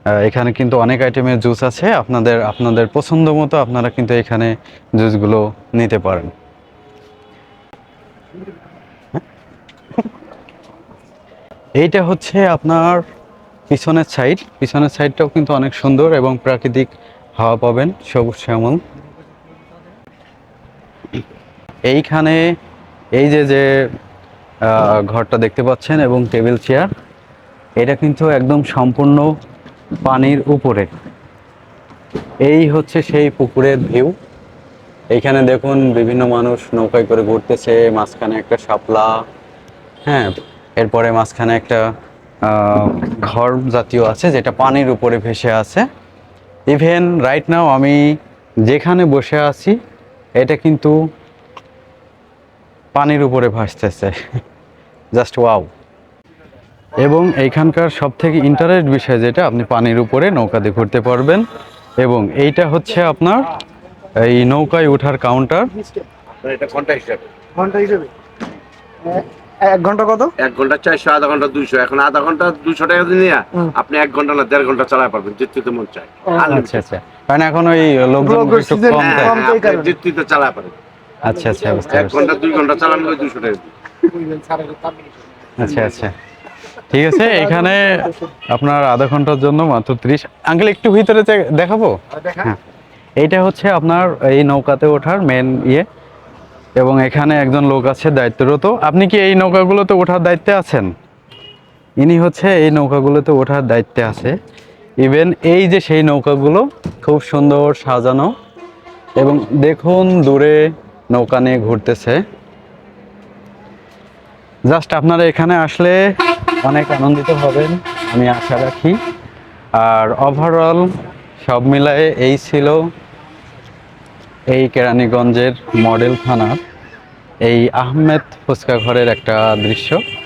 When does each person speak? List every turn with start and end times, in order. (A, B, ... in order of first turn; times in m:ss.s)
0:00.2-0:06.3 A
0:11.8-0:13.0 A
0:13.7-0:18.8 A
0:21.9-0:22.5 A
0:23.2-0:23.8 A
0:24.6-0:26.9 A
0:27.8-0:29.3 A
0:30.0-0:30.9 A
0:32.4-0:34.2 A
0:35.1-0:39.2 A
0:40.1-0:41.8 A
0:42.4-0:45.9 A
0:46.7-0:48.1 A
0:48.7-0:49.8 A
0:50.4-0:51.0 A
0:52.9-0:54.1 A
0:55.2-0:55.7 A
0:57.0-1:01.4 A
1:02.0-1:03.5 A
1:04.2-1:05.7 A
1:06.4-1:07.2 B
1:07.6-1:08.1 C
1:09.1-1:10.3 C
1:10.4-1:16.8 B
1:16.4-1:19.4 A
1:18.2-1:20.0 C
1:19.0-1:20.8 B
1:21.2-1:22.3 A
1:21.9-1:23.7 B
1:24.0-1:24.9 C
1:25.6-1:26.1 A
1:26.9-1:32.6 A
1:33.2-1:35.9 A
1:36.8-1:40.9 A
1:42.0-1:44.4 A
1:45.0-1:48.4 A
1:49.2-1:52.2 A
1:54.7-1:56.0 A
1:56.6-1:59.0 A
1:59.8-2:02.9 A
2:04.5-2:06.6 A
2:07.4-2:10.0 A